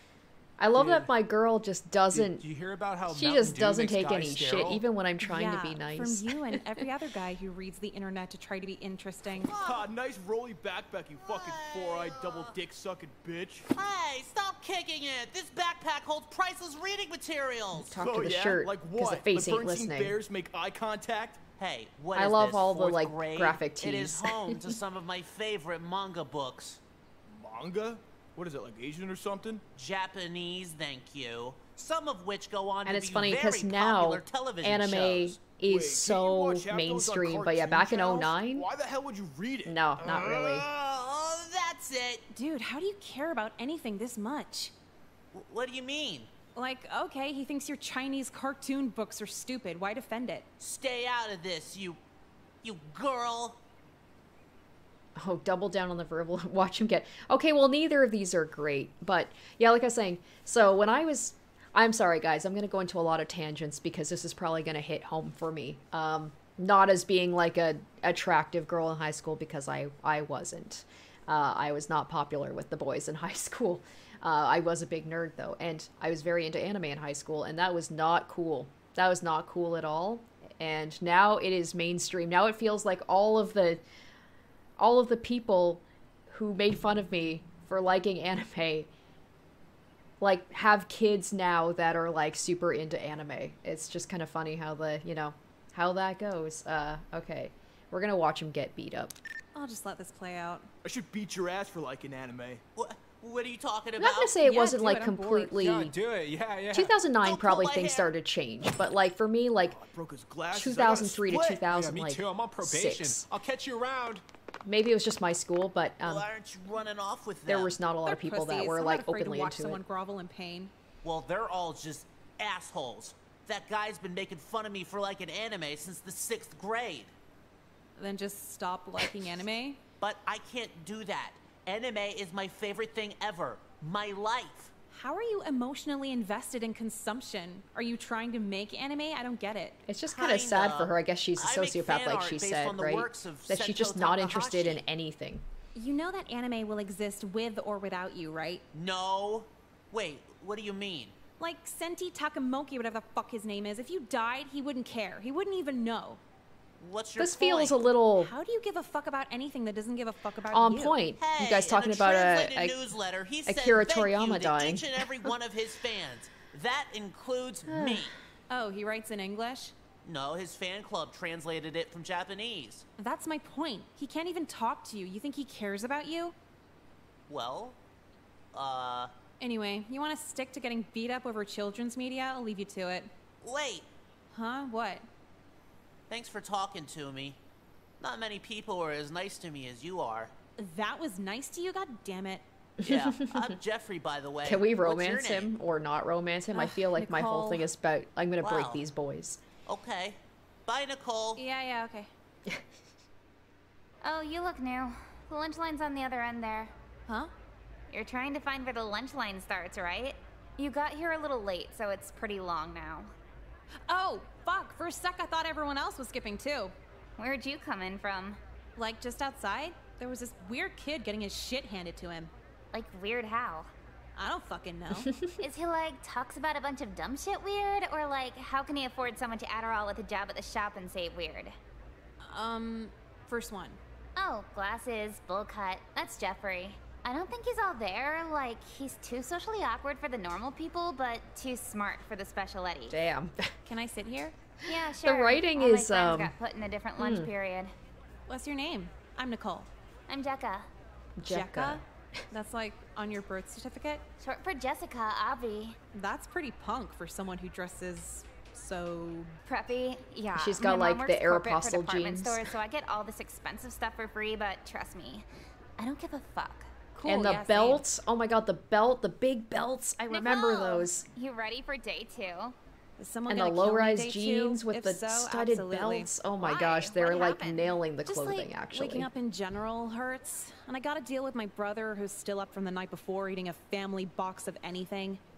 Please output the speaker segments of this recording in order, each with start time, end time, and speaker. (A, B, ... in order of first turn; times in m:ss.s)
0:00.6-0:02.4 A
0:00.7-0:01.1 B
0:02.1-0:04.8 B
0:03.0-0:06.6 A
0:05.2-0:09.5 C
0:09.5-0:09.9 D
0:09.5-0:13.7 E
0:11.2-0:12.5 D
0:13.7-0:17.9 D
0:17.9-0:20.2 A
0:17.9-0:21.4 E
0:21.6-0:26.8 D
0:22.1-0:24.8 A
0:27.3-0:29.6 E
0:29.7-0:35.4 D
0:32.8-0:38.7 A
0:35.6-0:40.3 E
0:39.6-0:40.6 A
0:40.0-0:42.2 D
0:42.3-0:44.7 C
0:45.3-0:46.3 D
0:46.5-0:50.5 C
0:50.6-0:52.0 D
0:52.6-0:53.6 D
0:55.2-1:23.8 A
1:24.8-1:28.9 A
1:30.2-1:39.2 A
1:39.5-1:40.7 C
1:40.8-1:42.6 E
1:42.8-1:44.4 D
1:44.0-1:45.9 A
1:44.4-1:45.5 C
1:45.6-1:46.9 B
1:46.7-1:49.8 A
1:47.2-1:48.1 D
1:49.7-1:51.4 E
1:50.5-1:53.2 A
1:51.3-1:54.2 B
1:54.6-1:56.3 A
1:56.0-1:57.7 D
1:57.5-1:59.8 A
1:58.0-2:00.7 C
2:01.0-2:07.1 D
2:08.0-2:09.8 C
2:10.0-2:14.7 D
2:14.9-2:19.8 C
2:19.8-2:25.4 A
2:20.1-2:24.8 D
2:25.7-2:28.6 C
2:28.7-2:31.1 D
2:31.4-2:36.2 C
2:36.8-2:37.8 D
2:37.2-2:38.3 A
2:38.2-2:41.0 C
2:40.5-2:42.8 A
2:41.2-2:48.1 D
2:43.4-2:45.3 A
2:47.7-2:48.1 A
2:48.5-2:49.7 C
2:50.0-2:52.8 D
2:53.0-2:56.3 C
2:57.3-2:57.8 D
2:58.5-2:59.1 D
2:59.4-3:03.1 C
3:03.4-3:03.9 D
3:04.3-3:05.0 C
3:06.1-3:07.4 D
3:08.0-3:10.3 D
3:10.6-3:12.4 C
3:12.8-3:13.5 A
3:12.8-3:15.5 D
3:14.4-3:19.4 A
3:16.5-3:17.6 C
3:18.4-3:18.8 D
3:19.6-3:21.4 D
3:21.4-3:22.1 C
3:24.0-3:26.7 F
3:27.1-3:27.3 C
3:27.9-3:33.1 F
3:33.9-3:36.7 C
3:37.2-3:38.4 F
3:38.8-3:42.3 C
3:42.7-3:43.7 F
3:44.2-3:45.1 C
3:44.9-3:45.3 A
3:45.4-3:51.6 F
3:52.2-3:53.8 C
3:54.2-4:03.0 F
4:02.9-4:03.5 A
4:03.6-4:04.3 C
4:04.6-4:06.3 A
4:04.6-4:07.7 F
4:07.0-4:07.3 A
4:08.3-4:09.7 C
4:10.1-4:10.7 F
4:11.2-4:12.2 A
4:11.2-4:14.0 C
4:14.2-4:15.8 F
4:15.9-4:19.4 C
4:19.4-4:26.7 F
4:20.3-4:22.5 A
4:26.9-4:27.8 C
4:27.0-4:31.0 A
4:30.1-4:32.6 F
4:33.0-4:36.1 C
4:33.3-4:39.1 A
4:36.4-4:37.7 F
4:38.0-4:45.2 C